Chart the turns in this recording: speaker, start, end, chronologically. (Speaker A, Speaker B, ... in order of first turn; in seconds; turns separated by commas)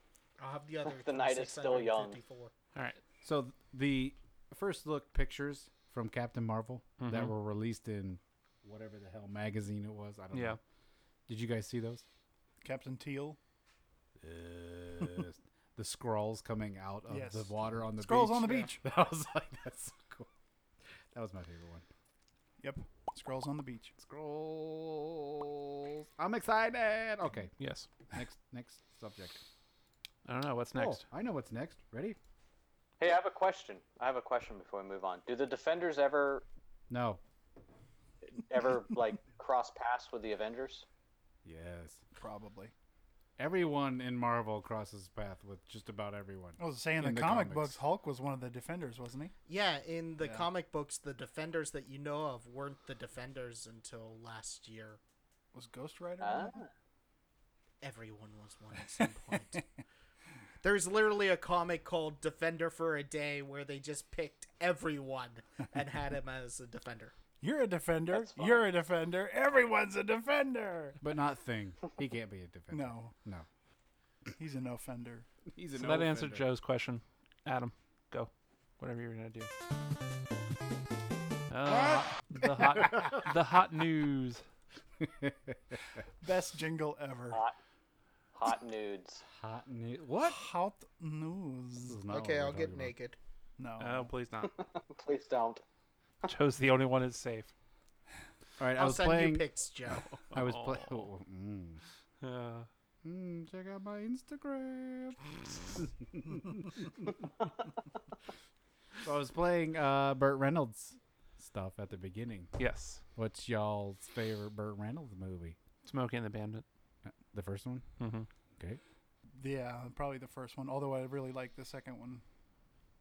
Speaker A: 0.4-2.5, Speaker B: 0.8-2.2, Speaker C: 2.8-3.0, Speaker D: 3.2-10.6, Speaker C: 7.0-7.3, Speaker C: 10.3-10.6, Speaker D: 11.3-12.1, Speaker E: 12.6-13.4, Speaker D: 14.2-20.3, Speaker E: 17.1-18.8, Speaker D: 21.1-21.9, Speaker E: 22.6-23.9, Speaker D: 24.0-27.5, Speaker C: 27.6-27.9, Speaker D: 28.1-29.4, Speaker C: 30.2-31.0, Speaker D: 30.7-32.2, Speaker B: 33.0-36.5, Speaker D: 36.9-37.2, Speaker B: 38.2-40.9, Speaker D: 41.5-42.0, Speaker E: 42.2-42.7, Speaker D: 43.4-47.8, Speaker E: 46.6-49.3, Speaker A: 49.5-55.0, Speaker E: 50.2-50.5, Speaker E: 55.5-56.6, Speaker B: 56.2-56.7, Speaker A: 57.8-59.6, Speaker E: 59.0-59.6, Speaker A: 60.6-67.1, Speaker E: 67.4-71.0, Speaker B: 68.1-68.7, Speaker D: 71.0-73.5, Speaker E: 72.7-73.1, Speaker E: 74.4-75.3, Speaker D: 75.5-76.5, Speaker C: 75.8-79.5, Speaker C: 81.5-84.4, Speaker D: 85.0-85.8, Speaker E: 86.2-87.4, Speaker B: 88.3-89.2, Speaker D: 89.4-90.4, Speaker E: 90.2-92.0, Speaker D: 91.8-92.9, Speaker A: 92.1-93.2, Speaker E: 93.6-94.1, Speaker C: 93.8-94.5, Speaker B: 94.5-95.6, Speaker C: 96.3-97.5, Speaker D: 98.6-99.5, Speaker A: 98.8-100.1, Speaker C: 100.1-101.1, Speaker D: 100.3-101.8, Speaker C: 102.2-102.7, Speaker D: 103.0-107.0, Speaker D: 109.0-112.5, Speaker C: 112.6-113.0, Speaker D: 113.2-115.6, Speaker C: 115.8-116.7, Speaker D: 117.1-117.9, Speaker C: 118.0-118.3, Speaker E: 119.3-122.2